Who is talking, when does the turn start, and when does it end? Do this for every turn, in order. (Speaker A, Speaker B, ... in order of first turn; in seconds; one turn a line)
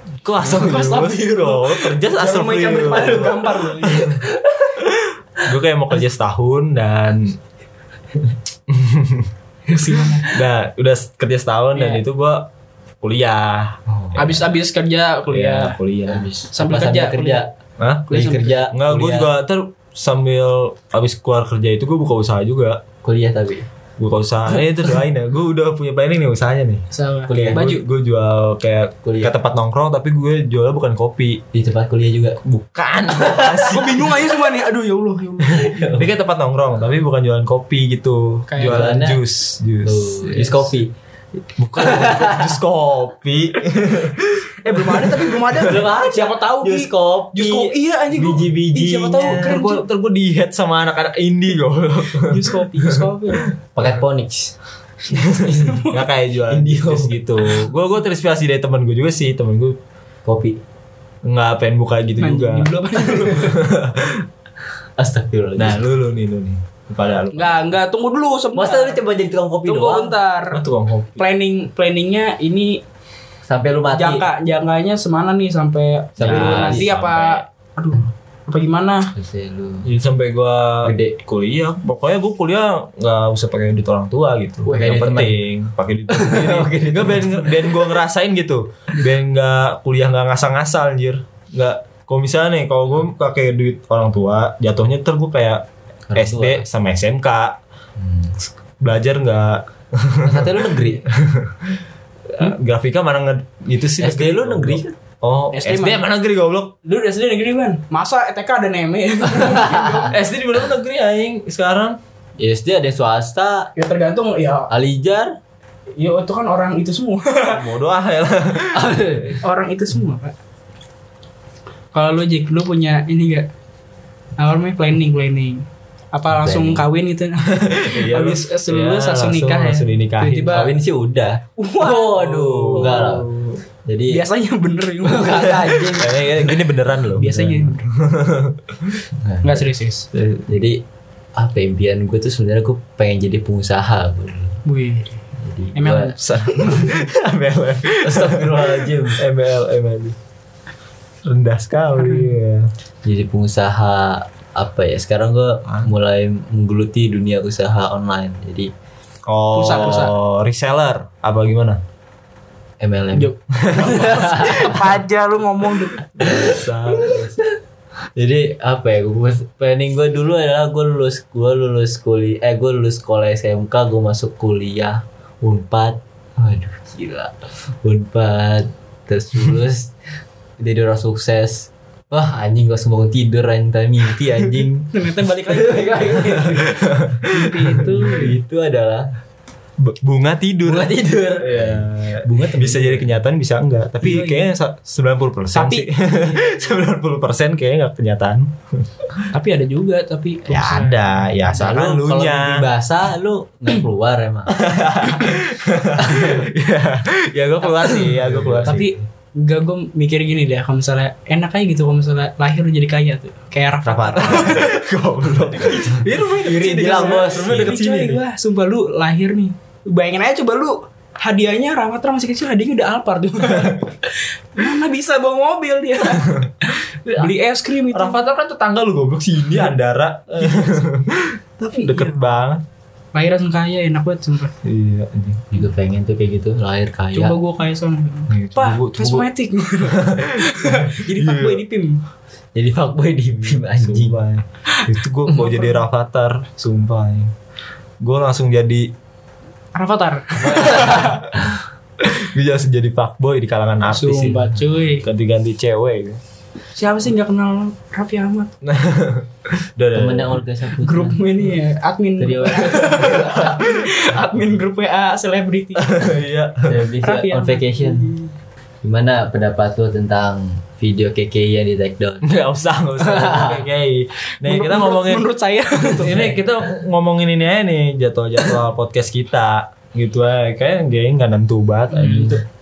Speaker A: 0.2-4.2
Speaker B: 0.4-4.2
Speaker C: 2.9-4.9
Speaker A: 4.8-7.4
Speaker A: 8.7-9.3
Speaker B: 9.7-10.3
Speaker A: 10.2-12.5
Speaker B: 11.8-12.0
Speaker A: 13.0-14.5
Speaker C: 13.9-14.4
Speaker B: 14.2-15.8
Speaker A: 15.3-16.3
Speaker C: 16.1-17.5
Speaker B: 16.5-17.4
Speaker A: 17.8-22.8
Speaker B: 18.1-18.6
Speaker C: 18.1-19.3
Speaker C: 23.0-23.7
Speaker A: 24.0-31.4
Speaker B: 26.9-27.8
Speaker C: 27.3-27.7
Speaker C: 29.0-29.3
Speaker C: 31.5-32.4
Speaker A: 32.4-34.2
Speaker C: 33.2-33.6
Speaker B: 33.7-35.8
Speaker C: 35.5-36.1
Speaker A: 35.9-40.7
Speaker B: 38.5-39.0
Speaker C: 38.6-39.2
Speaker C: 39.9-40.9
Speaker A: 41.6-45.6
Speaker C: 41.8-42.6
Speaker B: 44.6-49.9
Speaker C: 45.6-49.6
Speaker A: 49.2-54.0
Speaker B: 52.3-53.5
Speaker C: 53.8-54.6
Speaker A: 55.1-59.8
Speaker B: 55.1-56.1
Speaker C: 56.5-57.2
Speaker C: 60.2-60.6
Speaker A: 61.2-64.3
Speaker B: 62.2-63.6
Speaker C: 65.0-65.9
Speaker A: 65.6-67.7
Speaker B: 67.3-69.0
Speaker C: 68.5-70.2
Speaker B: 69.7-70.6
Speaker A: 70.5-71.2
Speaker B: 71.2-72.8
Speaker C: 73.5-74.3
Speaker B: 73.9-79.1
Speaker C: 76.2-77.0
Speaker A: 76.2-77.4
Speaker C: 79.1-79.9
Speaker A: 79.8-97.6
Speaker C: 80.8-81.2
Speaker C: 84.7-85.4
Speaker C: 86.1-87.9
Speaker C: 96.1-96.6
Speaker C: 98.0-98.3
Speaker A: 98.8-106.8
Speaker C: 100.2-101.0
Speaker C: 104.0-104.9
Speaker B: 105.5-106.0
Speaker B: 106.8-110.2
Speaker C: 109.4-110.1
Speaker A: 110.1-112.0
Speaker C: 112.4-113.7
Speaker B: 113.8-114.7
Speaker C: 114.7-115.4
Speaker B: 116.0-117.7
Speaker A: 117.5-119.4
Speaker C: 118.7-119.4
Speaker B: 119.4-120.3
Speaker B: 121.9-123.5
Speaker B: 124.4-130.8
Speaker C: 126.3-126.9
Speaker A: 127.5-130.6
Speaker C: 130.5-133.3
Speaker B: 131.6-133.1
Speaker A: 132.4-133.6
Speaker C: 133.9-134.2
Speaker B: 134.1-136.0
Speaker C: 135.0-136.6
Speaker A: 135.8-139.1
Speaker B: 137.0-137.9
Speaker C: 139.2-139.7
Speaker B: 139.4-140.1
Speaker A: 140.1-140.6
Speaker C: 140.5-140.8
Speaker C: 141.4-144.6
Speaker B: 144.7-145.2
Speaker C: 145.4-146.2
Speaker B: 145.8-146.9
Speaker A: 146.2-150.2
Speaker C: 148.0-149.2
Speaker A: 151.2-152.7
Speaker B: 152.0-152.3
Speaker C: 153.1-158.7
Speaker A: 159.3-161.8
Speaker B: 159.5-160.2
Speaker C: 162.8-165.0
Speaker B: 163.2-166.0
Speaker A: 163.6-164.8
Speaker A: 166.2-167.4
Speaker C: 166.2-167.6
Speaker C: 168.2-179.9
Speaker C: 180.6-184.9
Speaker B: 184.9-186.5
Speaker C: 185.5-186.8
Speaker A: 186.4-188.2
Speaker B: 187.3-188.4
Speaker C: 187.8-189.1
Speaker A: 189.8-199.3
Speaker C: 190.7-193.2
Speaker B: 194.0-194.5
Speaker B: 195.5-196.8
Speaker B: 199.3-201.2
Speaker A: 200.5-202.7
Speaker C: 201.5-204.6
Speaker A: 204.5-208.9
Speaker C: 206.0-206.5
Speaker B: 207.8-208.1
Speaker C: 208.0-208.8
Speaker B: 208.7-214.8
Speaker A: 213.8-218.2
Speaker B: 215.8-228.2
Speaker C: 216.3-217.8
Speaker A: 223.5-223.8
Speaker A: 226.2-226.5
Speaker A: 227.9-232.6
Speaker B: 230.4-230.7
Speaker B: 231.7-232.2
Speaker B: 233.1-234.6
Speaker A: 234.6-235.4
Speaker C: 235.5-237.4
Speaker B: 237.2-242.0
Speaker A: 238.3-239.3
Speaker A: 239.8-241.6
Speaker C: 242.6-244.2
Speaker A: 243.7-247.3
Speaker B: 244.7-245.8
Speaker A: 248.0-248.9
Speaker B: 249.7-251.3
Speaker C: 250.6-251.2
Speaker A: 250.8-251.4
Speaker A: 252.0-256.2
Speaker B: 253.9-255.1
Speaker B: 256.8-258.5
Speaker A: 258.6-260.4
Speaker C: 259.9-261.5
Speaker B: 260.8-266.1
Speaker C: 262.2-263.4
Speaker A: 263.2-264.0
Speaker A: 265.8-266.8
Speaker C: 266.6-268.1
Speaker B: 267.0-268.3
Speaker C: 268.8-272.3
Speaker A: 272.2-275.3
Speaker C: 273.0-273.6
Speaker B: 274.4-276.4
Speaker A: 275.9-282.4
Speaker B: 281.9-282.4